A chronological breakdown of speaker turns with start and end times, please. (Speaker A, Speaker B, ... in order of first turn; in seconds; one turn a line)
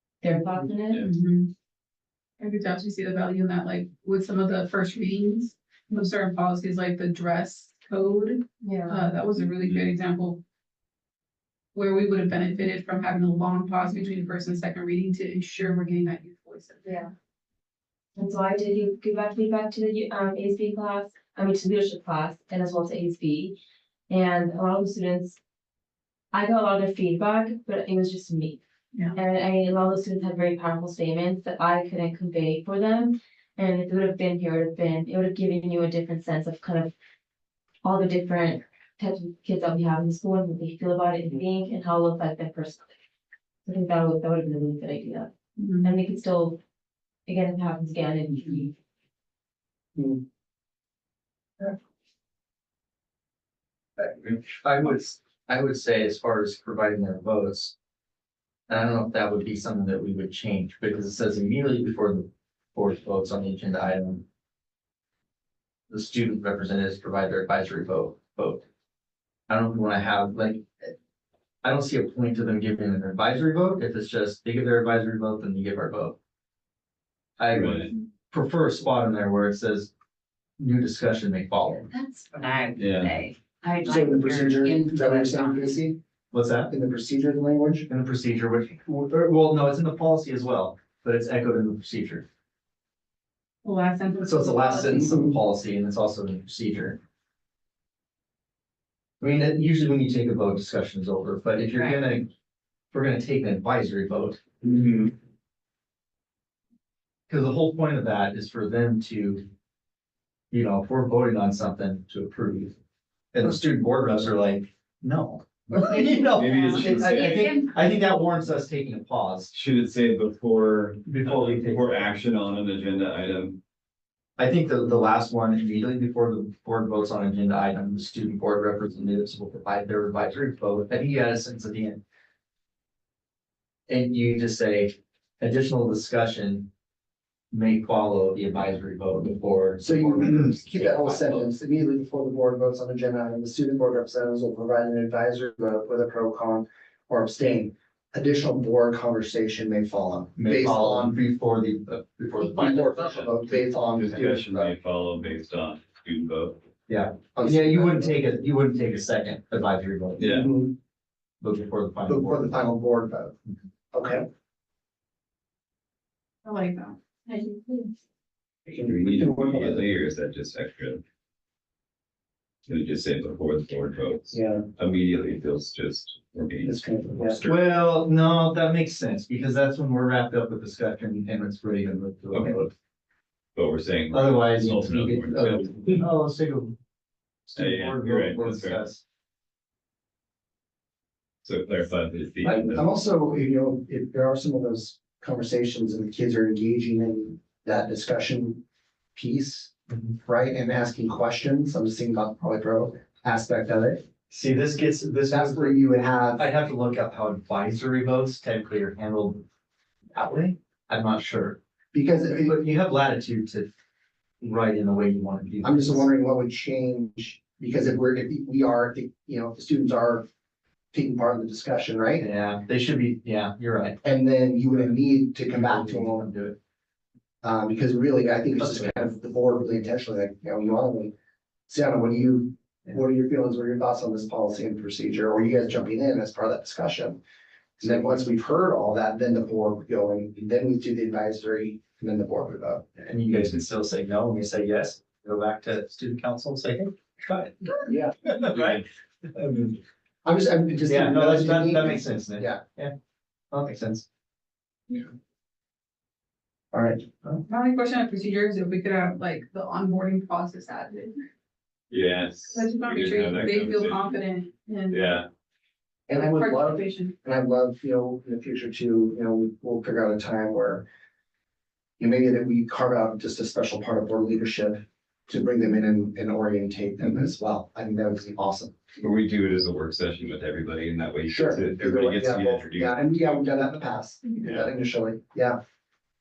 Speaker A: 0.2-1.1
Speaker B: 1.0-1.5
Speaker B: 2.4-10.4
Speaker A: 8.6-9.1
Speaker B: 11.7-17.1
Speaker A: 16.9-17.1
Speaker A: 18.2-23.6
Speaker A: 24.1-25.4
Speaker A: 26.3-28.6
Speaker A: 29.1-36.9
Speaker A: 37.8-42.9
Speaker A: 43.6-45.3
Speaker B: 45.6-45.9
Speaker A: 45.8-46.6
Speaker A: 47.3-48.7
Speaker C: 50.0-50.2
Speaker D: 54.0-57.8
Speaker D: 58.7-64.2
Speaker D: 65.9-68.6
Speaker D: 69.5-70.9
Speaker D: 71.6-76.2
Speaker D: 77.4-79.9
Speaker E: 77.6-77.9
Speaker D: 80.6-81.9
Speaker F: 81.9-85.7
Speaker E: 82.8-83.2
Speaker C: 83.8-86.0
Speaker D: 86.3-86.7
Speaker C: 86.7-87.9
Speaker D: 87.9-92.2
Speaker B: 93.6-95.1
Speaker D: 94.2-97.0
Speaker C: 94.9-95.4
Speaker D: 99.2-102.3
Speaker D: 102.9-104.4
Speaker C: 104.7-104.9
Speaker D: 107.3-109.5
Speaker D: 110.5-112.7
Speaker D: 113.3-119.5
Speaker E: 116.3-117.3
Speaker E: 119.5-123.6
Speaker D: 121.0-122.1
Speaker D: 124.4-132.0
Speaker D: 133.9-136.7
Speaker D: 137.5-141.5
Speaker C: 139.8-151.2
Speaker D: 150.4-153.1
Speaker C: 152.4-154.7
Speaker E: 154.0-156.6
Speaker D: 156.9-160.3
Speaker C: 157.3-158.2
Speaker E: 160.2-160.5
Speaker C: 160.3-160.8
Speaker D: 161.4-162.5
Speaker C: 162.1-163.4
Speaker C: 163.9-164.3
Speaker B: 166.4-167.0
Speaker A: 167.3-167.8
Speaker C: 168.7-170.0
Speaker E: 168.7-171.0
Speaker E: 172.7-176.7
Speaker C: 174.3-174.7
Speaker C: 176.6-177.4
Speaker E: 177.2-177.6
Speaker D: 177.4-182.7
Speaker E: 182.3-182.7
Speaker E: 183.6-185.6
Speaker D: 184.1-186.8
Speaker D: 187.5-189.0
Speaker E: 187.6-188.8
Speaker E: 191.4-192.8
Speaker C: 192.4-198.6
Speaker C: 199.2-204.1
Speaker D: 199.9-200.2
Speaker D: 204.3-205.8
Speaker C: 205.3-206.5
Speaker D: 206.4-209.4
Speaker D: 210.1-211.6
Speaker C: 211.9-212.6
Speaker D: 212.3-213.7
Speaker D: 214.4-216.1
Speaker C: 215.6-220.3
Speaker C: 220.9-222.3
Speaker D: 222.2-224.0
Speaker C: 224.0-226.3
Speaker D: 224.7-225.0
Speaker D: 225.5-226.6
Speaker C: 227.4-231.1
Speaker D: 228.6-229.0
Speaker C: 231.7-237.2
Speaker C: 237.8-242.9
Speaker D: 243.0-249.8
Speaker C: 247.9-248.1
Speaker C: 250.2-252.6
Speaker D: 250.8-252.9
Speaker D: 253.5-254.1
Speaker C: 256.7-257.4
Speaker B: 257.5-261.2
Speaker E: 261.9-264.1
Speaker B: 262.5-265.2
Speaker E: 264.9-265.3
Speaker C: 266.1-270.9
Speaker B: 266.1-267.1
Speaker C: 272.0-278.9
Speaker E: 279.0-283.0
Speaker C: 281.3-285.6